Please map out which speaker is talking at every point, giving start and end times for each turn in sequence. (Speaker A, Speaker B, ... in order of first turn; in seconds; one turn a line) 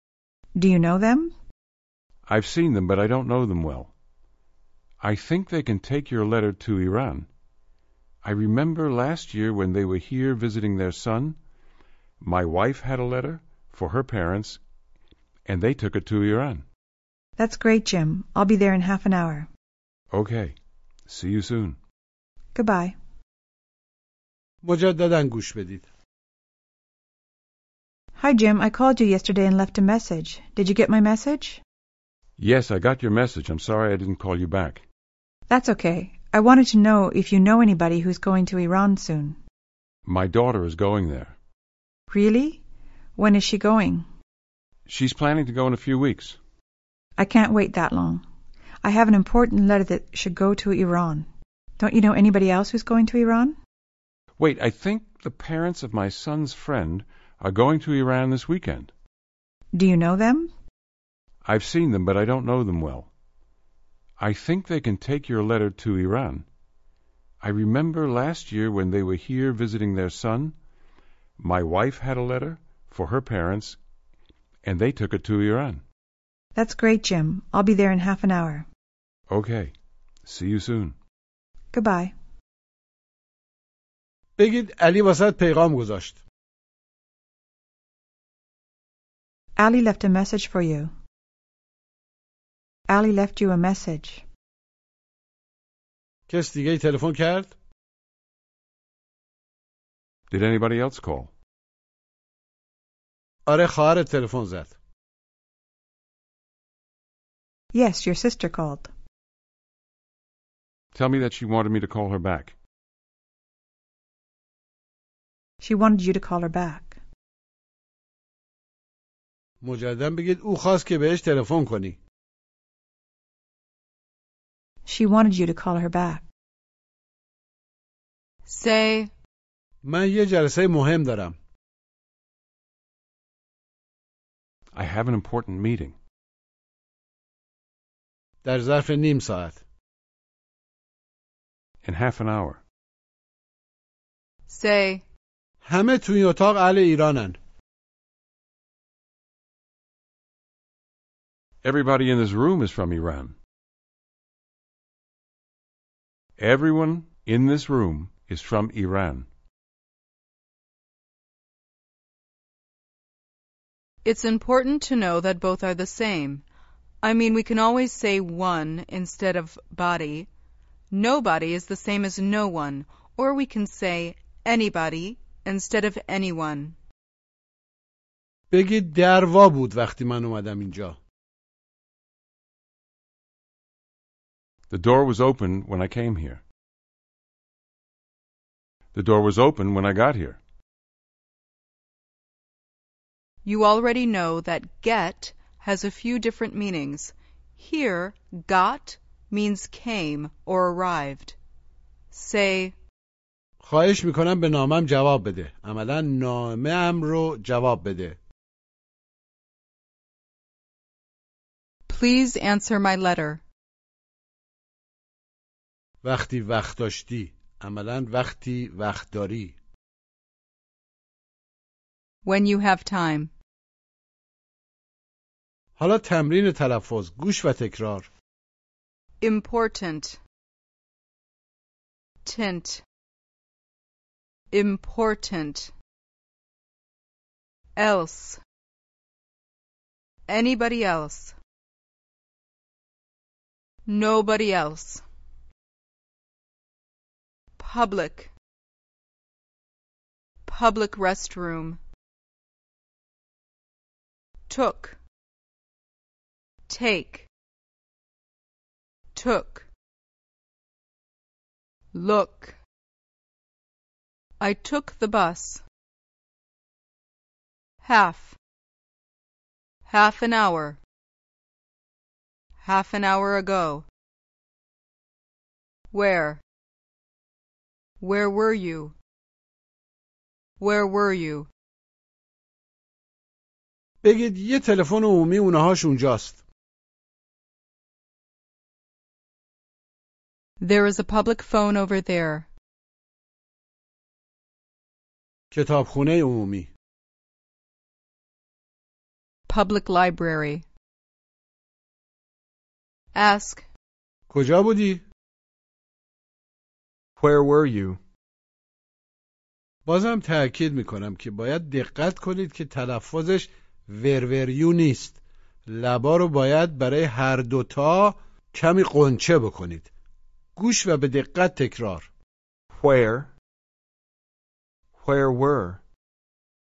Speaker A: 0.6-1.3
Speaker B: 2.3-3.9
Speaker B: 5.0-7.3
Speaker B: 8.2-11.4
Speaker B: 12.2-14.6
Speaker B: 15.5-16.6
Speaker A: 17.4-19.5
Speaker B: 20.1-20.6
Speaker B: 21.1-21.8
Speaker A: 22.5-23.0
Speaker C: 24.6-25.9
Speaker A: 28.2-31.6
Speaker B: 32.4-34.8
Speaker A: 35.5-39.4
Speaker B: 40.1-41.4
Speaker A: 42.1-42.6
Speaker A: 43.2-44.1
Speaker B: 44.9-46.4
Speaker A: 47.2-48.2
Speaker A: 48.8-51.3
Speaker A: 51.8-53.6
Speaker B: 54.4-58.9
Speaker A: 59.7-60.5
Speaker B: 61.4-63.1
Speaker B: 64.2-66.5
Speaker B: 67.4-70.6
Speaker B: 71.4-73.8
Speaker B: 74.6-75.8
Speaker A: 76.5-78.7
Speaker B: 79.3-79.7
Speaker B: 80.2-81.0
Speaker A: 81.7-82.2
Speaker C: 84.4-86.2
Speaker A: 89.6-90.9
Speaker A: 92.9-94.2
Speaker C: 96.3-97.5
Speaker B: 100.3-101.3
Speaker C: 103.5-104.7
Speaker A: 107.7-108.9
Speaker B: 110.9-112.5
Speaker A: 115.6-117.0
Speaker C: 119.6-122.0
Speaker A: 124.8-126.2
Speaker D: 128.5-129.1
Speaker C: 129.8-131.3
Speaker B: 134.7-135.9
Speaker C: 138.4-139.6
Speaker B: 141.8-142.6
Speaker D: 144.5-145.0
Speaker C: 145.6-147.4
Speaker B: 151.6-153.3
Speaker B: 156.4-159.3
Speaker D: 164.0-166.4
Speaker D: 167.0-170.3
Speaker D: 170.9-176.8
Speaker C: 178.5-181.0
Speaker B: 184.7-186.4
Speaker B: 188.9-190.4
Speaker D: 193.4-201.4
Speaker D: 202.1-202.7
Speaker C: 203.6-208.2
Speaker D: 211.9-213.4
Speaker C: 216.0-219.6
Speaker D: 222.2-223.3
Speaker C: 225.8-228.1
Speaker D: 229.2-230.2
Speaker D: 232.2-232.8
Speaker D: 234.5-235.7
Speaker D: 237.8-238.4
Speaker D: 240.3-241.3
Speaker D: 243.9-245.0
Speaker D: 247.6-248.3
Speaker D: 250.4-251.8
Speaker D: 254.5-255.0
Speaker D: 256.7-257.3
Speaker D: 259.1-259.7
Speaker D: 261.9-262.6
Speaker D: 264.4-265.6
Speaker D: 267.8-268.4
Speaker D: 269.9-270.8
Speaker D: 272.6-273.9
Speaker D: 275.9-276.4
Speaker D: 278.0-278.9
Speaker D: 280.6-281.5
Speaker C: 284.0-286.4
Speaker D: 290.6-292.5
Speaker C: 295.5-296.7
Speaker D: 299.5-300.6
Speaker D: 303.1-303.6
Speaker C: 304.3-305.0
Speaker E: 307.2-308.0
Speaker C: 309.9-319.9
Speaker C: 320.6-322.1
Speaker E: 322.7-323.3
Speaker E: 324.9-325.8